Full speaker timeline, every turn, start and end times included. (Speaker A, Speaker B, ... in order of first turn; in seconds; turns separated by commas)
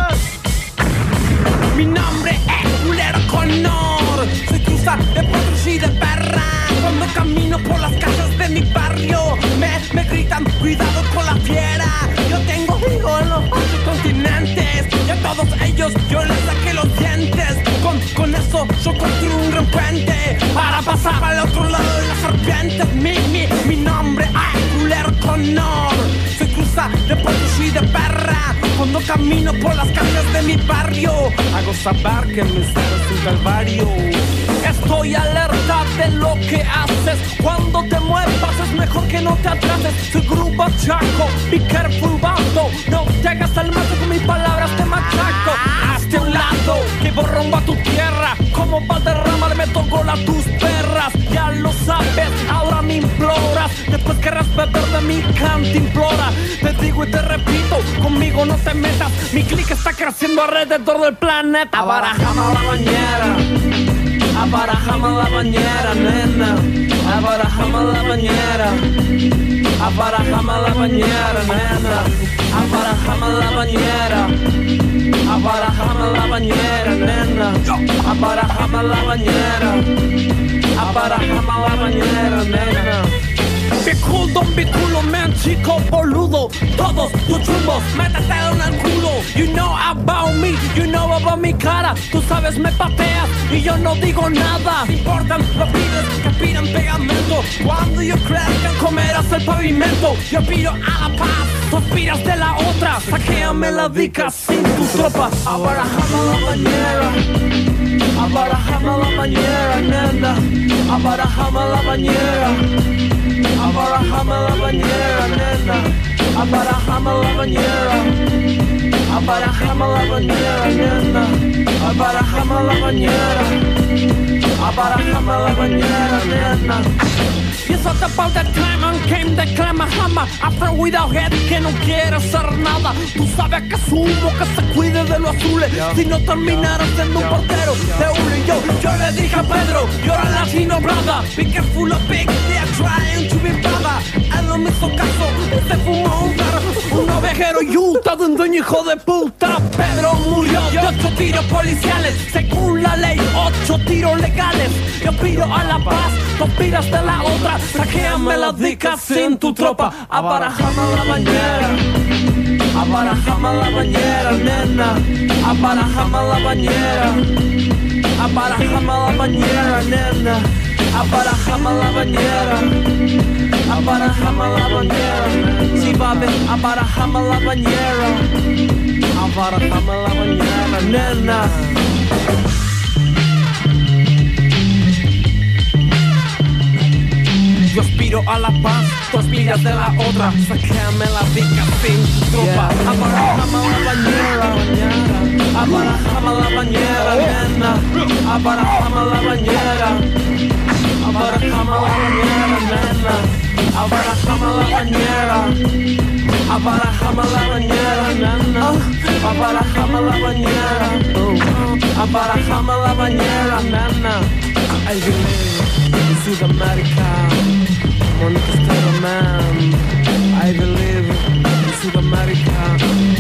Speaker A: 1.7-63.5, Speaker A: 64.3-68.9, Speaker A: 69.8-74.3, Speaker A: 75.2-79.9, Speaker A: 80.8-83.1, Speaker A: 83.8-107.2, Speaker A: 108.2-112.7, Speaker A: 113.6-118.2, Speaker A: 119.1-123.6, Speaker A: 124.6-126.9, Speaker A: 127.6-161.8, Speaker A: 162.7-167.3, Speaker A: 168.2-172.8, Speaker A: 173.7-178.3, Speaker A: 179.2-181.8, Speaker A: 187.7-200.1, Speaker A: 201.0-205.6, Speaker A: 206.5-214.3, Speaker A: 214.8-217.5, Speaker A: 218.1-222.8